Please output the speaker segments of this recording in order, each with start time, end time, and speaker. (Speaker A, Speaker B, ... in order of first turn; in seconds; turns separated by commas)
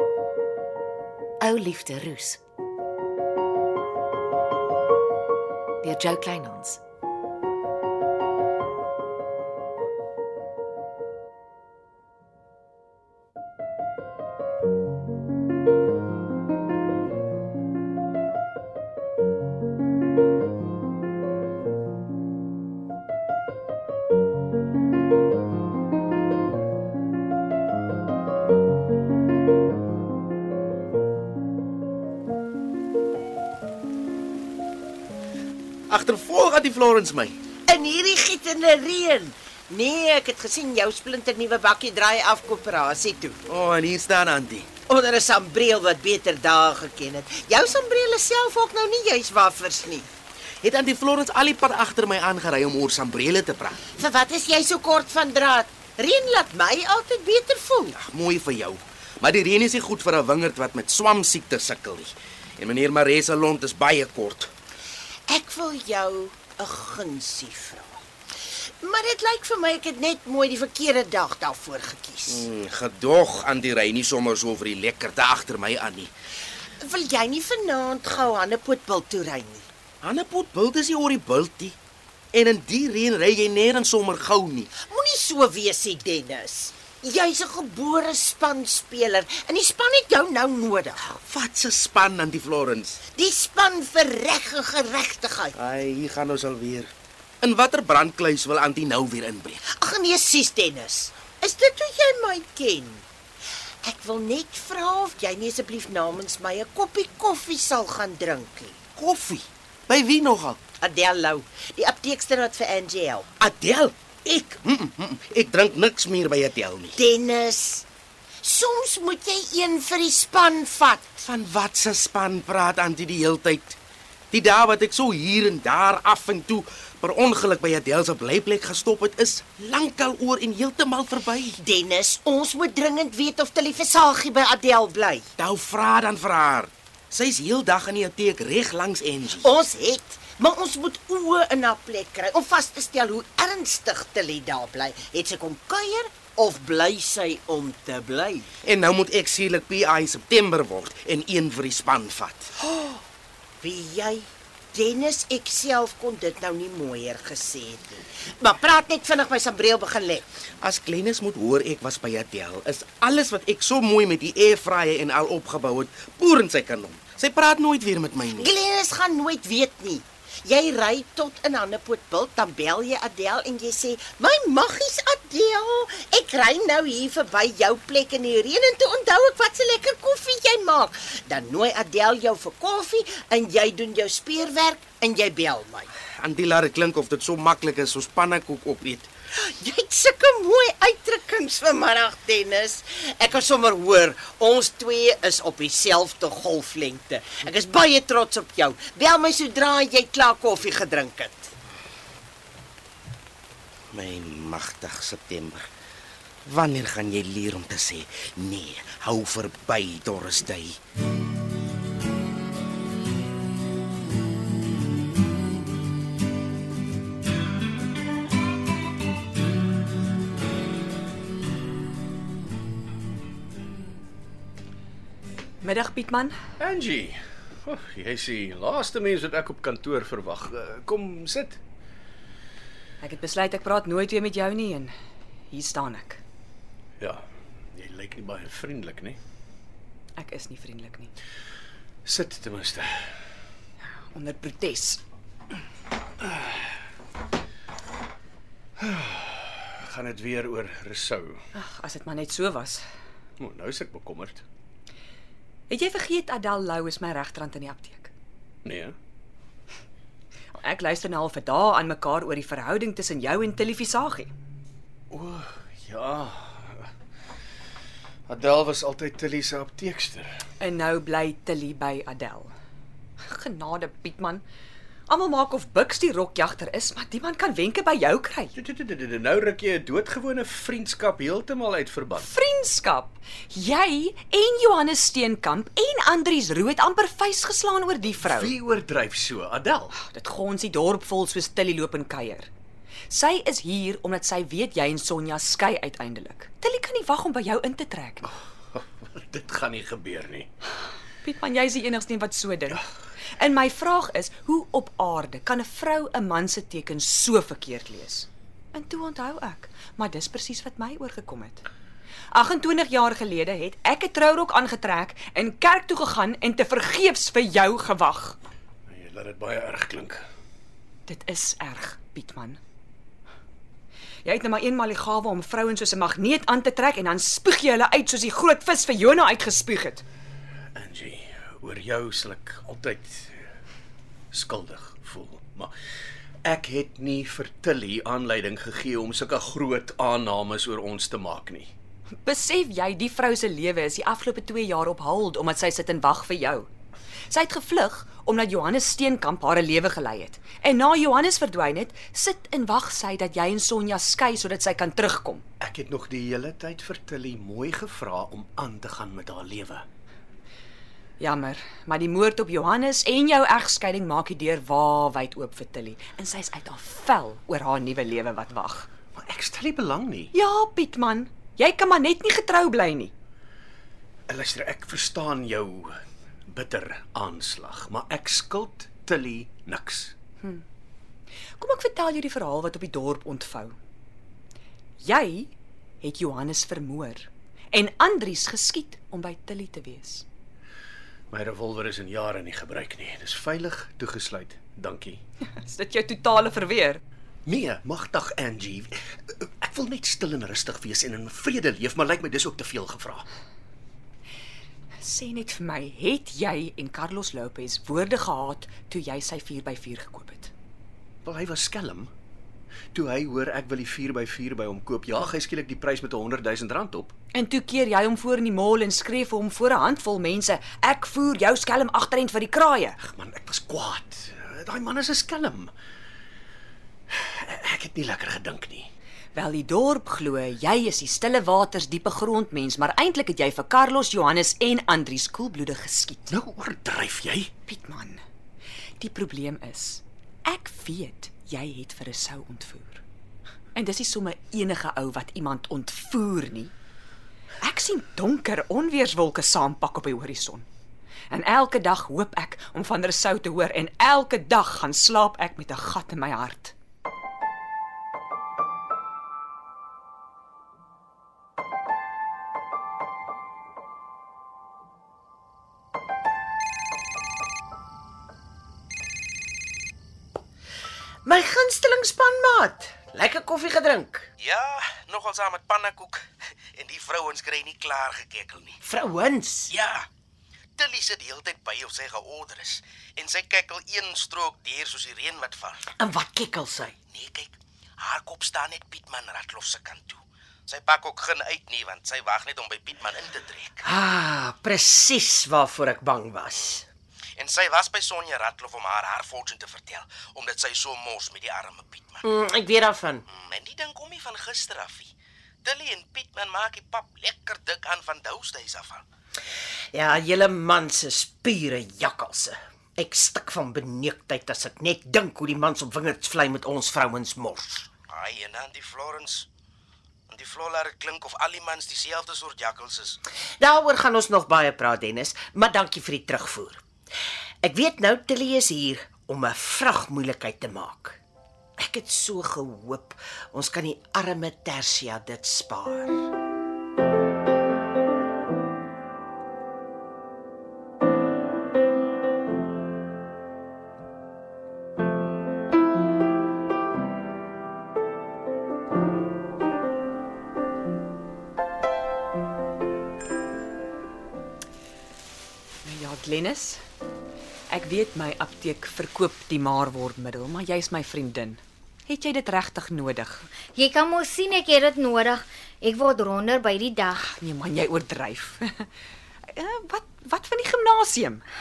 Speaker A: 1.4-2.4, Speaker A: 5.8-6.8, Speaker B: 35.9-37.4, Speaker C: 37.7-43.4, Speaker B: 43.5-44.7, Speaker C: 44.9-50.1, Speaker B: 50.6-53.8, Speaker C: 53.9-58.0, Speaker B: 57.9-64.5, Speaker C: 65.3-68.0, Speaker C: 68.8-72.5, Speaker B: 72.3-76.1, Speaker C: 76.8-79.7, Speaker B: 80.0-81.8, Speaker B: 82.3-84.7, Speaker C: 84.8-91.0, Speaker B: 91.0-93.0, Speaker C: 93.1-95.5, Speaker B: 95.5-99.6, Speaker C: 99.7-103.0, Speaker C: 103.8-108.8, Speaker B: 109.0-110.6, Speaker C: 110.8-113.3, Speaker B: 113.4-117.0, Speaker C: 117.0-117.8, Speaker C: 118.4-121.2, Speaker B: 121.2-123.8, Speaker B: 124.3-131.6, Speaker C: 131.6-135.2, Speaker B: 135.4-139.6, Speaker C: 139.4-148.4, Speaker B: 148.6-152.5, Speaker C: 153.6-160.2, Speaker B: 160.6-168.5, Speaker C: 168.4-185.9, Speaker B: 186.2-189.1, Speaker C: 189.4-201.5, Speaker B: 203.9-205.6, Speaker B: 206.4-210.8, Speaker D: 225.6-226.3, Speaker E: 226.6-231.6, Speaker D: 233.0-234.9, Speaker D: 235.5-236.2, Speaker E: 237.7-239.2, Speaker D: 240.1-241.1, Speaker E: 242.0-243.1, Speaker D: 244.0-245.0, Speaker E: 246.3-246.5, Speaker E: 248.8-251.4, Speaker D: 251.5-252.8, Speaker E: 253.4-254.4, Speaker D: 255.7-258.1, Speaker E: 258.6-258.9, Speaker D: 260.6-264.3, Speaker E: 265.1-266.9, Speaker E: 268.3-270.3, Speaker D: 270.6-272.5, Speaker D: 273.3-274.4, Speaker D: 275.1-278.5, Speaker E: 278.5-282.3, Speaker D: 282.2-288.5, Speaker E: 288.2-289.9, Speaker D: 289.9-292.5, Speaker D: 293.1-298.3, Speaker E: 298.7-300.5, Speaker D: 301.2-302.8, Speaker D: 303.4-311.6, Speaker D: 312.3-318.4, Speaker E: 318.9-320.2, Speaker D: 321.1-322.6, Speaker D: 324.2-330.0, Speaker E: 330.7-333.4, Speaker E: 334.3-335.7, Speaker E: 336.4-341.7, Speaker D: 342.2-346.7, Speaker D: 347.3-355.4, Speaker E: 355.6-359.8, Speaker D: 361.2-368.9, Speaker E: 369.1-370.3, Speaker D: 370.3-373.1, Speaker E: 374.3-375.9, Speaker E: 376.5-380.1, Speaker D: 381.6-383.7, Speaker D: 385.0-390.2, Speaker E: 391.3-395.2, Speaker D: 395.6-397.0, Speaker E: 397.4-403.2, Speaker D: 405.0-410.5, Speaker E: 411.2-412.1, Speaker E: 412.9-417.1, Speaker D: 417.3-423.0, Speaker E: 423.0-425.7, Speaker E: 427.1-428.9, Speaker D: 429.3-436.3, Speaker E: 436.3-437.5, Speaker D: 437.6-438.2, Speaker D: 439.0-443.0, Speaker D: 443.7-446.7, Speaker D: 447.6-450.6, Speaker D: 451.3-456.7, Speaker C: 471.2-474.3, Speaker B: 474.4-476.2, Speaker B: 476.7-478.8, Speaker C: 478.8-479.7, Speaker B: 479.7-480.1, Speaker B: 480.8-485.9, Speaker C: 486.0-486.9, Speaker B: 487.1-493.9, Speaker C: 493.8-496.8, Speaker B: 497.4-502.2, Speaker C: 502.2-503.2, Speaker B: 503.3-505.1, Speaker B: 505.6-509.0, Speaker C: 509.9-517.9, Speaker B: 518.1-519.5, Speaker B: 520.3-523.2, Speaker C: 523.6-526.8, Speaker C: 527.6-531.2, Speaker C: 531.8-536.3, Speaker D: 555.8-556.8, Speaker D: 557.7-563.5, Speaker F: 563.7-567.2, Speaker D: 567.2-568.9, Speaker D: 569.5-571.4